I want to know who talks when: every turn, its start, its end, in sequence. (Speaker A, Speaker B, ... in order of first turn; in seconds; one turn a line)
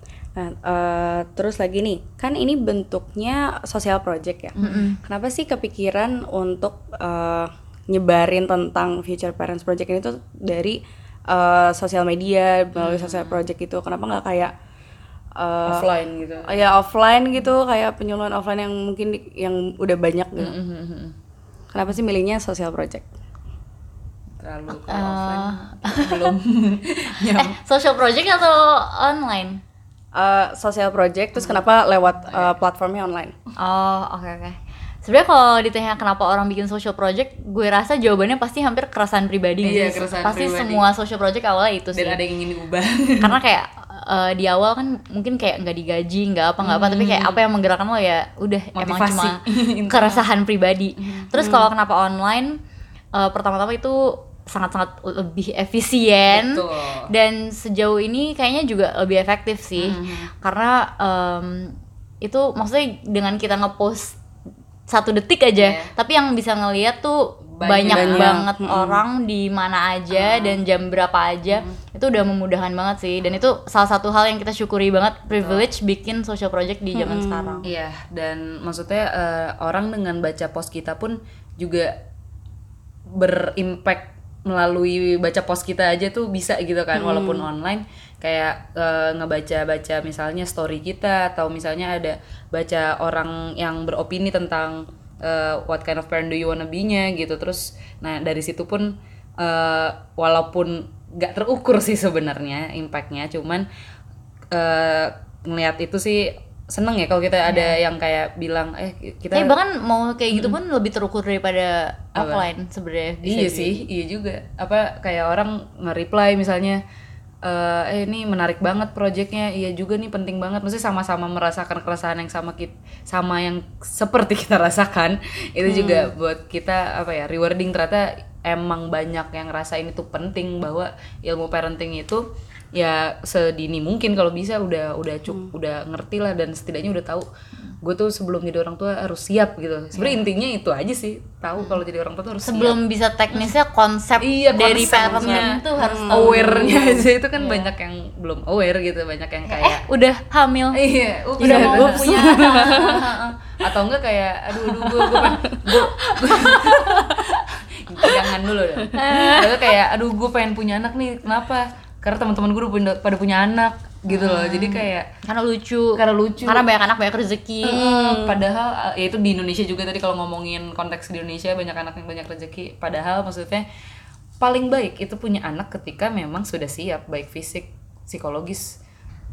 Speaker A: 0.3-14.5
Speaker B: 4.6-4.9
Speaker C: 4.6-5.0
Speaker B: 12.8-13.4
Speaker A: 15.4-15.9
Speaker B: 15.7-16.7
Speaker A: 16.4-20.6
Speaker B: 20.4-21.2
Speaker A: 21.7-23.1
Speaker B: 24.4-27.6
Speaker C: 24.7-26.3
Speaker C: 27.2-29.6
Speaker A: 30.1-33.3
Speaker B: 32.3-32.5
Speaker C: 33.6-42.2
Speaker B: 39.6-40.9
Speaker B: 41.9-43.4
Speaker C: 43.2-52.6
Speaker B: 46.6-47.4
Speaker B: 48.8-50.2
Speaker B: 51.0-51.3
Speaker C: 53.1-64.2
Speaker B: 56.3-57.1
Speaker B: 59.8-60.3
Speaker C: 64.9-77.6
Speaker B: 65.6-65.9
Speaker B: 67.6-68.4
Speaker A: 67.9-69.0
Speaker B: 70.1-70.6
Speaker B: 71.5-71.8
Speaker B: 75.3-75.7
Speaker A: 77.0-77.6
Speaker B: 77.7-82.0
Speaker B: 83.2-103.7
Speaker A: 87.0-87.5
Speaker B: 104.5-109.5
Speaker C: 107.5-107.8
Speaker C: 109.3-113.8
Speaker B: 112.2-112.5
Speaker B: 113.2-116.8
Speaker B: 117.4-137.3
Speaker A: 125.7-126.1
Speaker B: 137.8-142.8
Speaker C: 142.4-147.7
Speaker B: 144.2-149.9
Speaker A: 144.9-146.9
Speaker C: 149.5-150.8
Speaker B: 150.7-165.1
Speaker C: 151.4-153.1
Speaker A: 151.4-153.1
Speaker A: 154.6-156.9
Speaker C: 156.2-157.1
Speaker A: 158.0-159.6
Speaker C: 159.0-159.4
Speaker C: 164.1-167.9
Speaker B: 166.0-166.7
Speaker B: 167.6-173.7
Speaker A: 167.7-168.4
Speaker B: 174.4-178.8